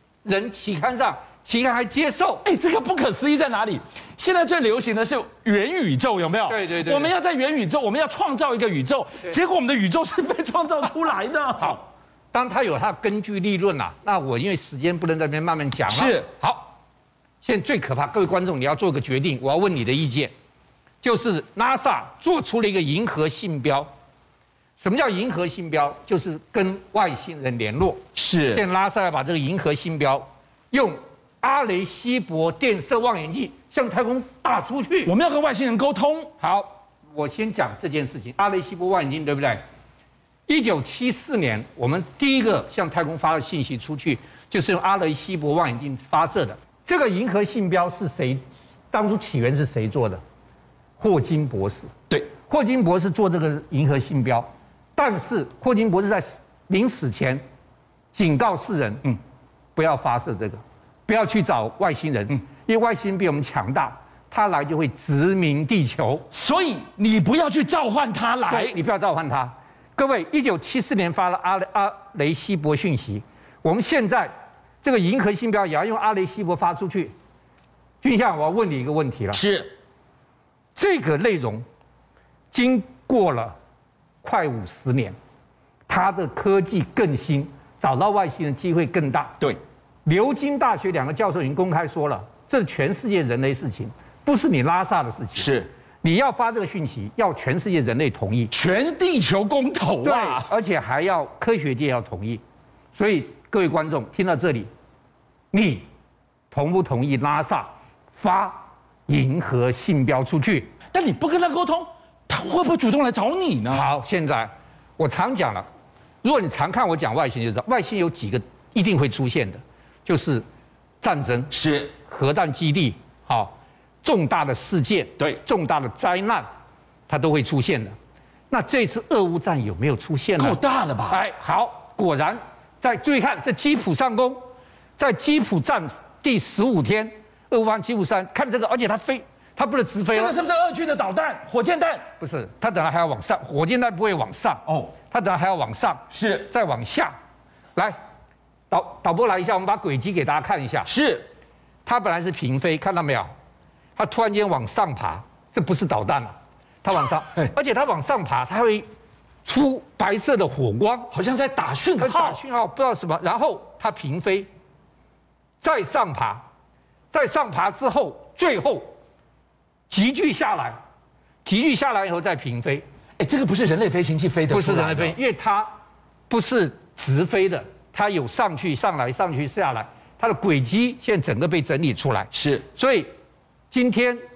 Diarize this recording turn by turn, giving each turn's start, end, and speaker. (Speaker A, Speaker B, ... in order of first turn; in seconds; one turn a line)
Speaker A: 0.2-2.4
Speaker B: 2.4-11.8
Speaker A: 6.5-7.1
Speaker A: 12.3-16.8
Speaker B: 15.9-16.3
Speaker A: 17.4-20.3
Speaker A: 21.0-23.9
Speaker A: 24.8-35.1
Speaker B: 28.1-28.6
Speaker B: 35.0-36.3
Speaker A: 36.4-39.6
Speaker A: 40.5-50.2
Speaker A: 51.0-57.4
Speaker A: 58.1-59.1
Speaker A: 59.8-66.3
Speaker B: 66.3-68.8
Speaker A: 68.5-74.3
Speaker A: 74.8-77.1
Speaker A: 78.0-79.4
Speaker B: 79.3-79.7
Speaker A: 80.8-81.7
Speaker A: 82.5-83.6
Speaker A: 84.2-85.2
Speaker A: 85.9-89.4
Speaker A: 90.0-98.5
Speaker B: 95.3-95.7
Speaker B: 98.5-100.5
Speaker A: 100.0-102.4
Speaker A: 102.9-104.7
Speaker A: 105.5-105.9
Speaker A: 106.5-110.7
Speaker B: 110.9-113.9
Speaker A: 113.7-115.7
Speaker A: 116.2-120.5
Speaker A: 121.0-126.5
Speaker B: 121.5-121.9
Speaker A: 127.1-128.0
Speaker A: 128.5-130.6
Speaker B: 130.4-131.2
Speaker A: 131.1-134.4
Speaker A: 135.0-140.4
Speaker B: 140.1-142.1
Speaker A: 142.2-147.1
Speaker B: 144.7-144.9
Speaker B: 146.1-146.5
Speaker A: 148.7-150.9
Speaker B: 150.8-151.3
Speaker A: 151.8-153.3
Speaker A: 154.0-158.8
Speaker A: 159.4-161.1
Speaker B: 161.1-162.4
Speaker A: 162.0-164.5
Speaker A: 165.6-166.4
Speaker A: 167.1-168.9
Speaker A: 169.9-170.8
Speaker A: 171.4-172.8
Speaker B: 173.2-175.2
Speaker A: 174.5-175.7
Speaker A: 176.3-183.1
Speaker B: 182.3-182.6
Speaker A: 183.7-184.2